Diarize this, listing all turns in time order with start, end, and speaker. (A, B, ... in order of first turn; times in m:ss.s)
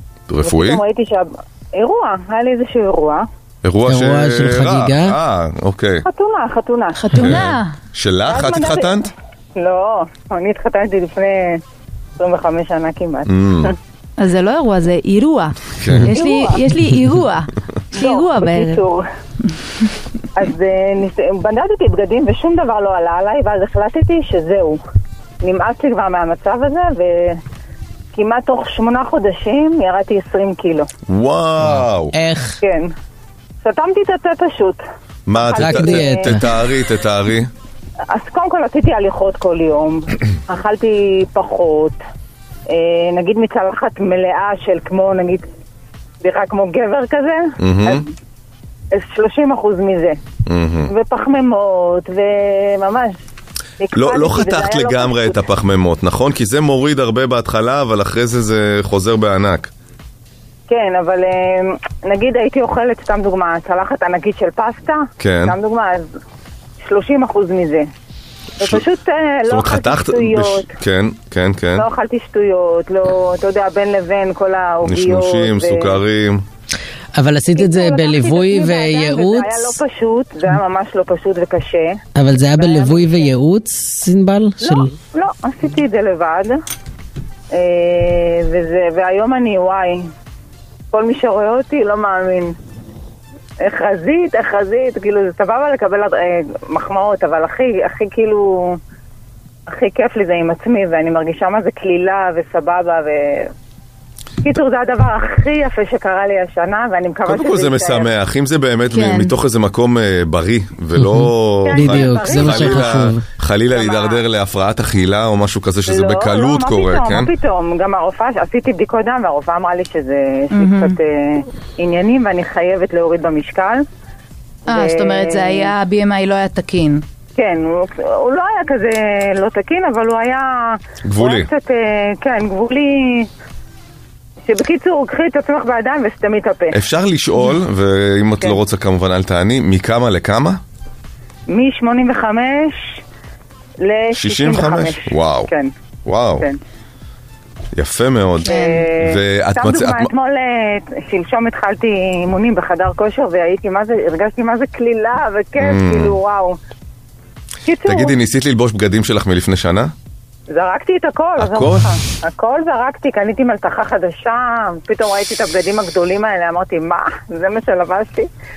0:00.3-0:00.8 A
0:00.4-0:03.2 B
0:03.6-0:06.0 A
0:03.9-0:05.2 C
0:06.0-0:07.0 B
0:06.9-0:07.7 D
0:07.1-0:09.1 A
0:08.3-0:09.0 B
0:09.6-0:11.6 B
0:12.2-0:13.7 B
0:13.2-0:13.7 A
0:14.2-0:18.8 D
0:15.8-0:16.1 A
0:16.1-0:16.6 B
0:17.9-0:19.0 B
0:20.3-0:24.8 B
0:25.4-0:27.4 B
0:28.1-0:30.9 B
0:31.1-0:32.1 A
0:32.1-0:32.6 C
0:32.6-0:32.9 B
0:33.6-0:34.8 B
0:35.3-0:37.5 A
0:35.4-0:36.3 B
0:35.5-0:36.5 C
0:38.1-0:42.0 B
0:42.7-0:45.4 B
0:46.2-0:48.1 B
0:47.6-0:48.0 A
0:48.9-0:50.2 B
0:50.4-0:50.9 A
0:50.9-0:53.1 B
0:53.8-0:55.4 B
0:53.9-0:59.7 A
1:00.7-1:06.1 B
1:05.2-1:05.6 A
1:06.8-1:07.9 B
1:08.6-1:10.7 B
1:09.4-1:11.8 A
1:11.8-1:16.0 B
1:14.8-1:16.4 A
1:17.2-1:19.8 C
1:17.6-1:22.0 B
1:22.2-1:24.9 C
1:22.6-1:23.3 B
1:24.6-1:26.6 B
1:27.5-1:30.1 B
1:30.9-1:32.5 B
1:33.6-1:38.8 B
1:39.7-1:43.5 B
1:44.4-1:48.1 B
1:47.2-1:57.3 A
1:48.9-1:49.3 D
1:51.0-1:53.2 C
1:51.6-1:53.0 B
1:53.7-1:54.2 B
1:55.9-2:03.8 B
2:00.5-2:01.0 D
2:04.7-2:07.0 D
2:04.7-2:05.7 B
2:07.4-2:13.3 B
2:11.0-2:11.5 A
2:14.5-2:16.8 B
2:16.7-2:20.6 A
2:21.5-2:23.0 B
2:23.8-2:25.7 B
2:24.1-2:25.5 A
2:26.0-2:26.4 A
2:27.7-2:30.1 A
2:28.4-2:36.6 B
2:28.5-2:28.9 D
2:35.6-2:36.2 A
2:37.6-2:38.1 B
2:37.9-2:39.9 A
2:40.5-2:48.3 B
2:41.4-2:41.9 A